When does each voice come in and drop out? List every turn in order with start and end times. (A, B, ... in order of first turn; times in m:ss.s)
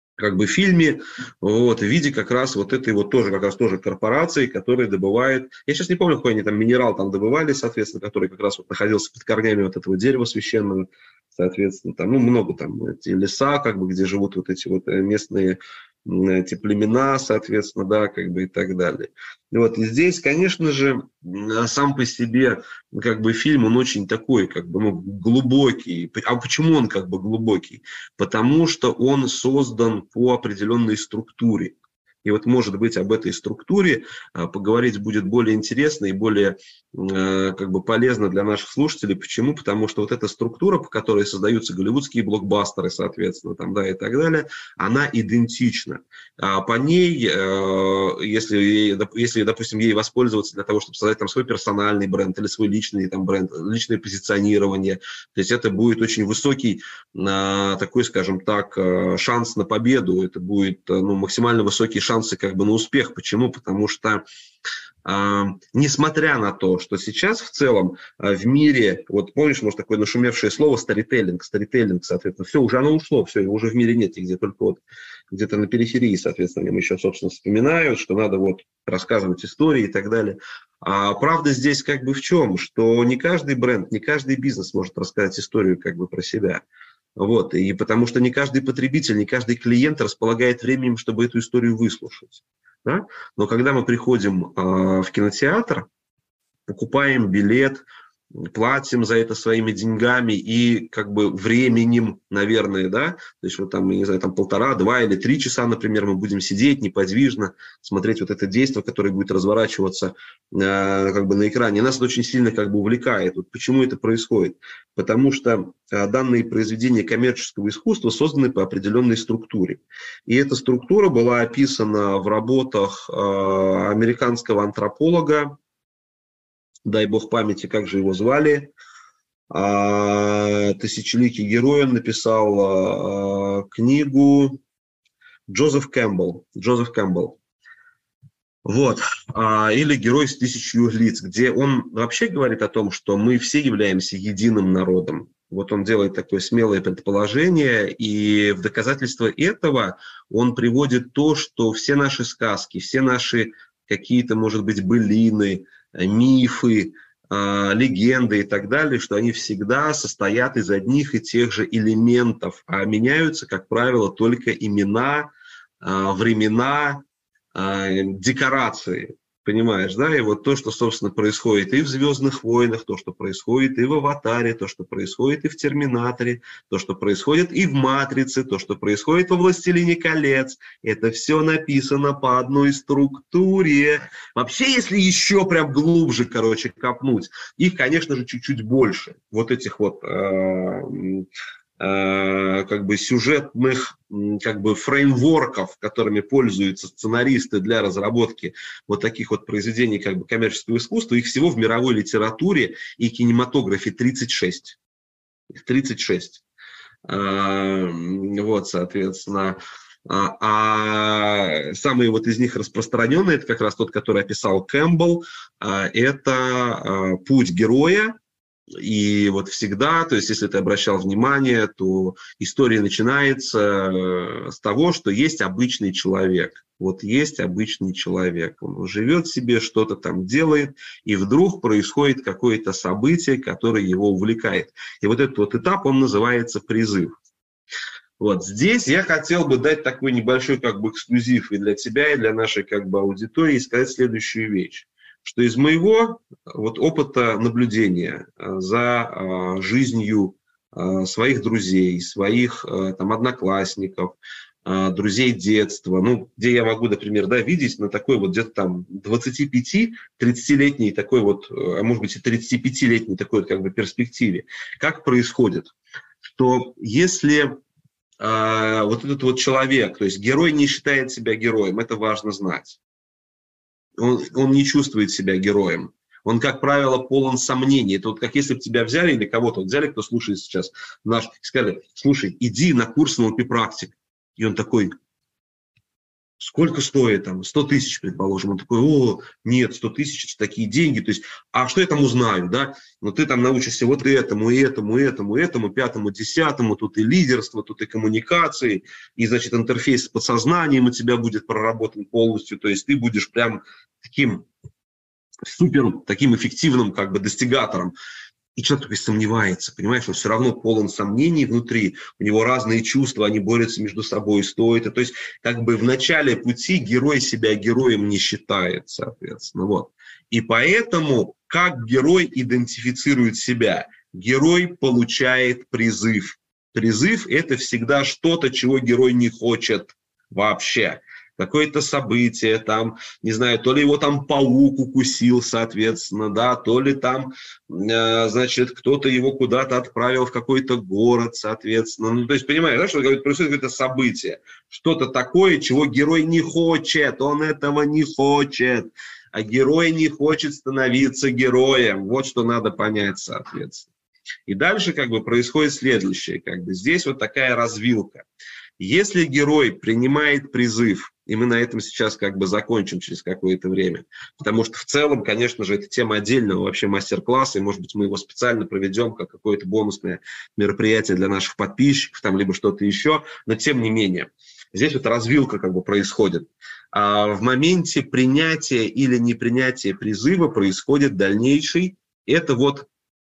0:00.2-1:04.2 A
1:05.0-1:26.6 A
1:27.2-1:35.9 A
1:36.7-1:37.8 A
1:38.4-2:05.5 A
2:06.9-2:08.7 A
2:09.5-2:14.6 A
2:15.5-2:17.4 A
2:18.6-2:45.3 A
2:45.8-2:47.0 A
2:47.6-3:11.2 A
3:11.8-3:24.8 A
3:25.5-3:26.4 A
3:27.1-3:38.1 A
3:38.8-3:57.1 A
3:58.2-4:25.7 A
4:26.4-4:27.6 A
4:28.2-4:32.8 A
4:34.0-4:44.9 A
4:46.4-5:04.4 A
5:05.4-5:07.9 A
5:08.6-5:53.9 A
5:54.5-5:58.2 A
5:58.8-6:22.9 A